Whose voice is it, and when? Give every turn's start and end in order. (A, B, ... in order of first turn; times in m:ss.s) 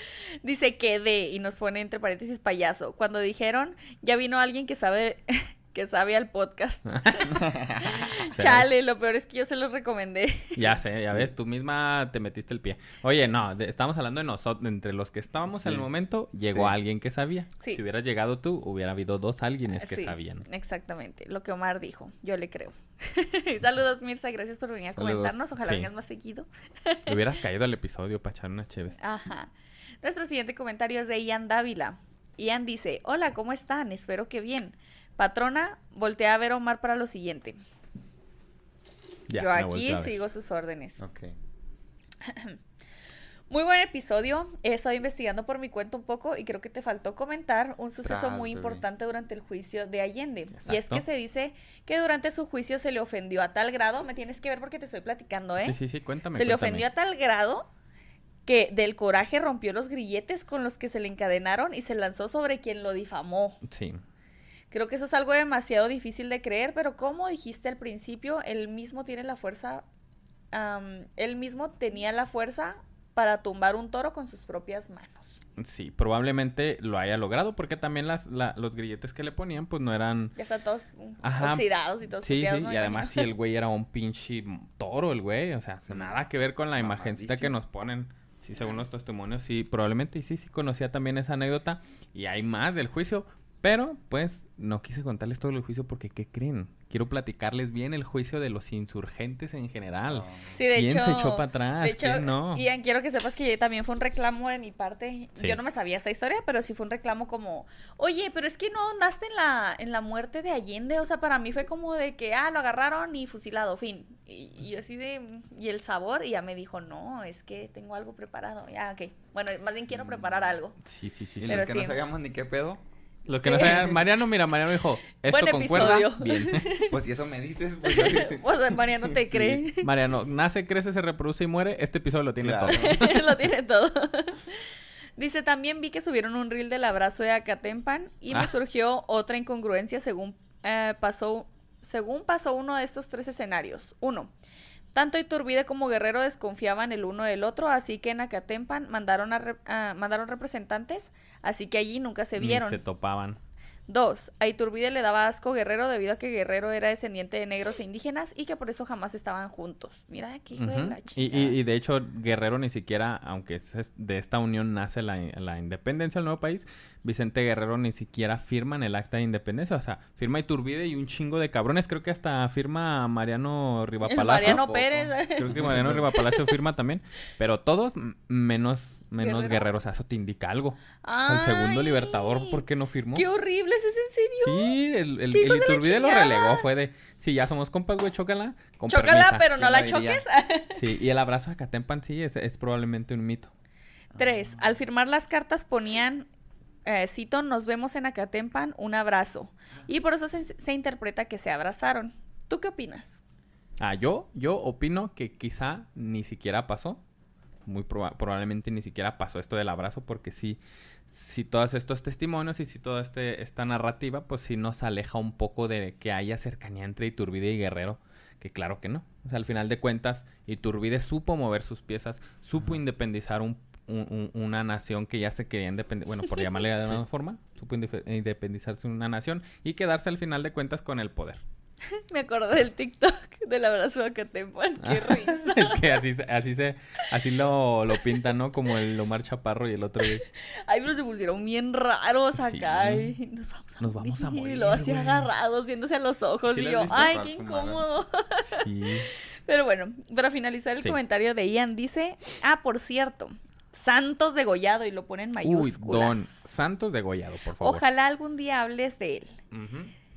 0:00.4-0:10.7 A
0:06.9-0:07.4 B
0:08.2-0:08.7 B
0:10.6-0:20.4 B
0:15.6-0:15.9 C
0:16.4-0:16.7 C
0:19.7-0:27.2 A
0:24.9-0:25.4 C
0:25.6-0:25.9 B
0:27.1-0:29.0 B
0:29.0-0:37.6 A
0:39.3-0:40.1 B
0:39.4-0:41.0 A
0:41.0-0:41.4 C
0:42.2-0:42.6 A
0:43.5-0:55.8 A
0:48.0-0:48.8 C
0:50.5-0:51.0 B
0:55.6-0:56.9 B
0:56.3-0:57.7 A
0:58.4-1:03.6 A
1:03.6-1:04.0 B
1:04.7-1:09.8 A
1:10.5-1:15.3 A
1:15.6-1:20.3 B
1:20.4-1:23.3 A
1:21.2-1:42.6 B
1:25.8-1:26.2 C
1:26.8-1:27.5 C
1:40.1-1:40.5 C
1:40.5-2:00.8 A
2:00.0-2:00.3 C
2:00.8-2:01.6 B
2:01.4-2:02.8 C
2:01.5-2:02.0 A
2:03.3-2:06.7 B
2:03.4-2:04.0 A
2:03.6-2:04.0 C
2:05.3-2:06.9 A
2:06.9-2:09.6 C
2:07.8-2:09.9 A
2:09.8-2:13.4 B
2:12.4-2:13.0 C
2:12.7-2:14.6 A
2:15.2-2:24.3 A
2:24.9-2:32.8 A
2:32.4-2:33.4 B
2:33.9-2:41.6 A
2:40.5-3:03.2 B
2:54.0-2:56.6 A
2:54.4-2:56.1 C
2:59.2-2:59.7 A
3:01.0-3:02.6 A
3:03.1-3:04.7 A
3:04.4-3:09.5 B
3:05.3-3:06.6 A
3:08.9-3:10.8 A
3:09.5-3:10.2 C
3:10.8-3:13.5 B
3:14.1-3:14.6 C
3:14.2-3:16.3 A
3:16.8-3:23.2 A
3:23.8-3:27.0 B
3:27.6-3:51.4 B
3:51.9-3:56.0 A
3:54.8-4:00.2 B
4:00.3-4:08.6 A
4:02.4-4:03.2 B
4:03.8-4:05.3 B
4:06.5-4:07.1 B
4:06.9-4:07.8 C
4:08.5-4:09.1 B
4:09.4-4:16.4 A
4:15.4-4:17.8 B
4:17.6-4:19.4 A
4:19.5-4:19.9 B